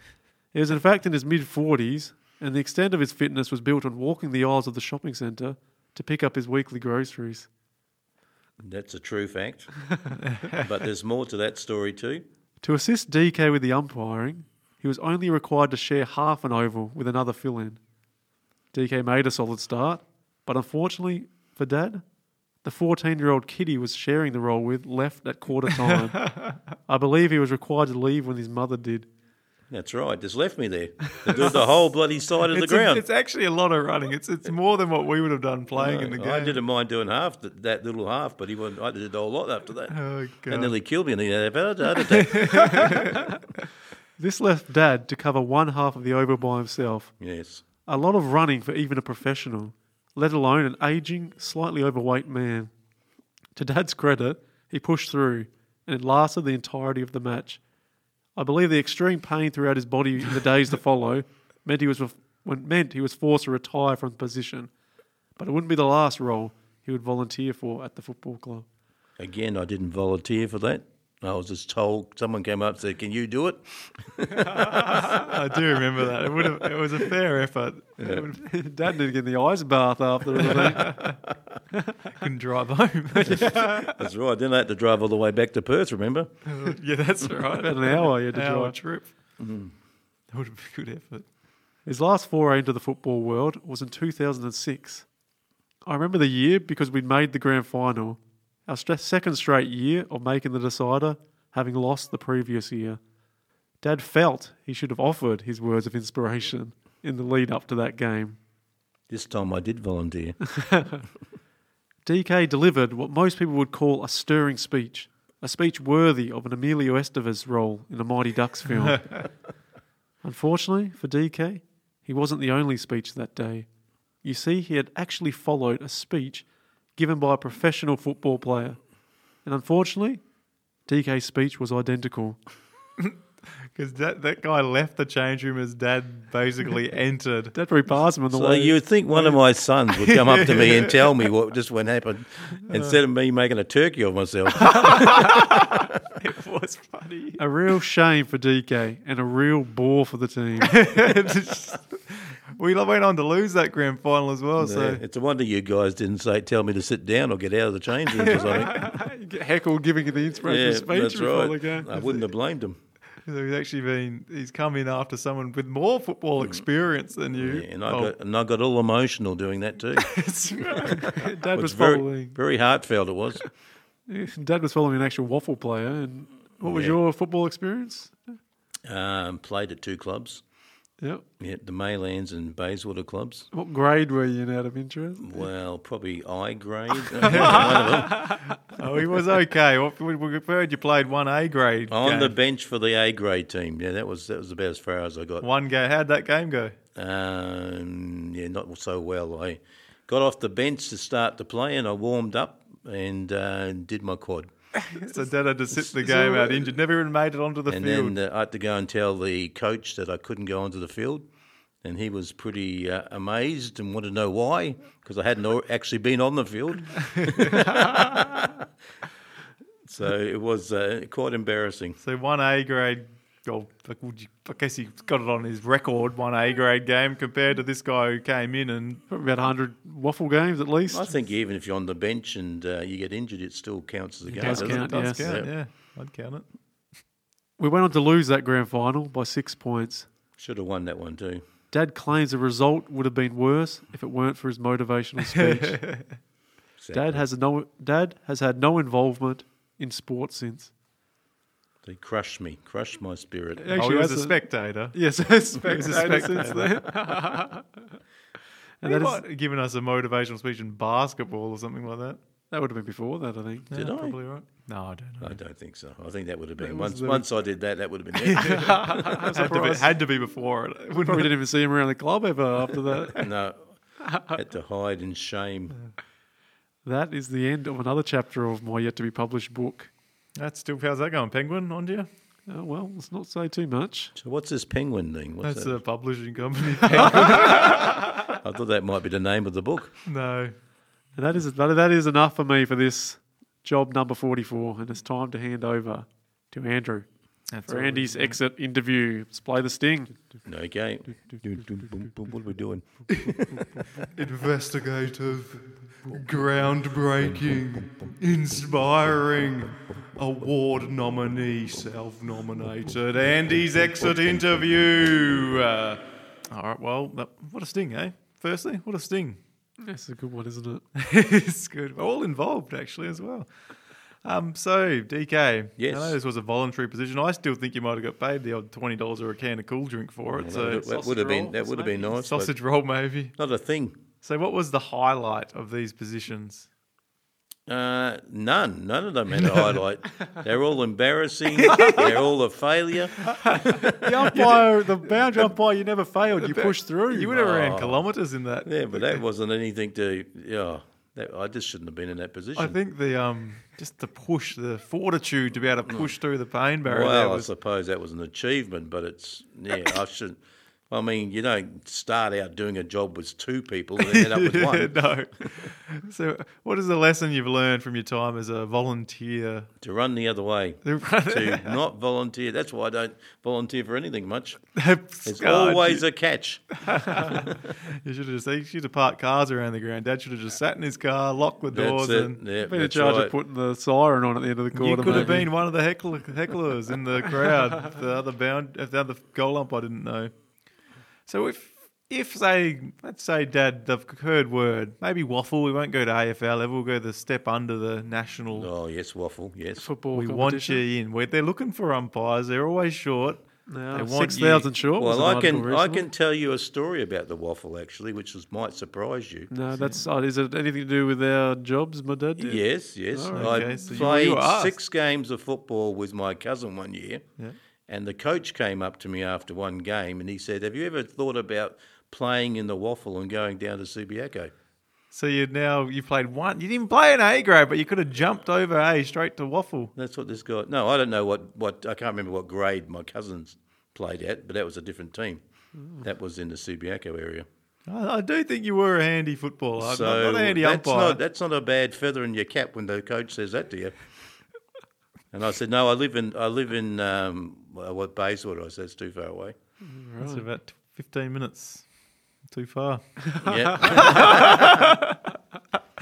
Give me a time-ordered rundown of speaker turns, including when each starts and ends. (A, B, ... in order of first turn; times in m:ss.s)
0:00.5-0:07.5 A
0:08.6-0:09.7 B
0:10.3-0:10.6 C
0:10.5-0:12.2 B
0:12.6-0:17.8 A
0:18.7-0:22.0 A
0:22.6-0:26.2 A
0:25.8-0:26.6 C
0:26.9-0:29.1 A
0:29.7-0:33.0 B
0:31.3-0:31.6 C
0:32.5-0:36.6 C
0:35.8-0:42.7 B
0:39.9-0:40.8 C
0:42.2-0:43.2 C
0:44.2-0:47.1 A
0:47.2-0:47.6 B
0:47.8-0:52.7 A
0:53.6-0:57.6 A
0:58.4-1:04.7 A
1:05.4-1:08.7 A
1:09.2-1:15.1 B
1:14.7-1:18.2 C
1:18.0-1:18.3 B
1:18.1-1:20.9 A
1:20.4-1:21.2 C
1:22.2-1:23.8 C
1:23.2-1:26.3 B
1:23.3-1:23.7 A
1:26.5-1:29.1 C
1:27.6-1:28.8 A
1:29.4-1:29.7 B
1:30.3-1:31.2 C
1:31.8-1:35.1 A
1:35.8-1:43.0 A
1:43.8-1:48.4 A
1:49.1-1:50.6 B
1:50.6-1:51.0 A
1:52.0-1:59.3 A
2:00.2-2:03.7 A
2:04.2-2:08.8 A
2:09.4-2:10.2 A
2:10.9-2:12.4 A
2:13.8-2:17.5 C
2:17.5-2:18.8 A
2:18.3-2:25.4 B
2:19.1-2:21.1 C
2:24.6-2:27.4 C
2:27.4-2:30.8 A
2:30.6-2:35.0 C
2:34.6-2:38.8 B
2:38.2-2:42.3 A
2:40.4-2:42.8 B
2:43.2-2:48.1 C
2:47.4-2:50.1 B
2:50.0-2:51.3 C
2:50.9-2:52.4 A
2:51.5-2:53.4 B
2:54.1-2:58.2 A
2:56.6-2:57.0 B
2:58.9-3:00.4 B
3:01.4-3:03.5 B
3:03.5-3:05.5 A
3:05.2-3:08.3 B
3:07.2-3:12.4 C
3:11.9-3:15.5 B
3:15.4-3:16.8 C
3:17.0-3:24.5 B
3:24.8-3:28.2 C
3:27.7-3:31.3 B
3:31.8-3:38.5 B
3:37.2-3:37.9 C
3:39.9-3:42.0 B
3:42.0-3:49.0 C
3:49.1-3:51.1 A
3:50.9-3:55.5 B
3:54.3-3:56.4 C
3:54.4-3:55.3 A
3:57.6-4:00.1 A
4:00.4-4:01.4 B
4:01.7-4:05.8 A
4:05.2-4:06.1 C
4:06.8-4:07.2 B
4:06.9-4:10.7 A
4:11.8-4:13.7 B
4:13.6-4:17.8 A
4:13.7-4:15.0 C
4:15.6-4:16.8 C
4:18.8-4:19.2 A
4:18.8-4:22.2 C
4:22.5-4:23.7 A
4:23.7-4:25.4 C
4:23.7-4:24.2 B
4:25.2-4:28.7 B
4:26.6-4:27.3 A
4:28.2-4:31.3 C
4:28.4-4:29.9 A
4:31.0-4:33.2 A
4:33.2-4:33.6 B
4:34.1-4:35.8 B
4:36.8-4:39.9 A
4:40.4-4:42.1 C
4:42.5-4:44.1 A
4:44.2-4:45.8 B
4:45.4-4:48.2 C
4:48.3-4:49.9 B
4:50.1-4:50.5 C
4:51.2-4:57.1 A
4:57.5-4:58.4 C
4:57.7-5:00.4 A
5:00.5-5:03.7 B
5:04.1-5:19.4 C
5:13.7-5:14.6 B
5:19.8-5:20.8 A
5:21.0-5:23.5 C
5:24.2-5:30.9 C
5:25.8-5:26.2 B
5:30.3-5:32.5 B
5:30.6-5:32.2 A
5:32.2-5:33.3 C
5:33.4-5:34.0 B
5:34.2-5:36.7 C
5:37.7-5:43.2 B
5:39.4-5:39.8 C
5:41.6-5:42.2 C
5:43.5-5:45.4 C
5:43.6-5:47.4 A
5:46.4-5:49.2 C
5:47.3-5:48.1 B
5:48.6-5:52.8 B
5:52.6-5:57.5 C
5:56.8-6:00.4 B
6:00.9-6:05.0 B
6:04.0-6:09.7 C
6:09.8-6:14.6 B
6:10.8-6:11.8 C
6:14.8-6:16.0 C
6:15.2-6:16.6 B
6:16.9-6:22.4 C
6:21.7-6:23.3 B
6:22.6-6:25.5 A
6:24.7-6:30.3 C
6:31.3-6:38.7 C
6:38.5-6:39.9 B
6:39.8-6:40.8 A
6:40.1-6:44.7 C
6:43.7-6:46.1 A
6:45.0-6:49.5 B
6:49.5-6:54.6 A
6:49.8-6:50.0 C
6:52.4-6:57.2 B
6:53.3-6:54.7 C
6:57.9-7:04.5 B
7:05.1-7:09.9 C
7:10.0-7:15.4 B
7:16.0-7:17.5 B
7:17.9-7:21.2 C
7:19.8-7:24.0 B
7:25.3-7:29.6 B
7:29.8-7:30.4 A
7:30.2-7:31.8 C
7:32.5-7:33.0 C
7:33.4-7:35.0 B
7:33.8-7:35.1 C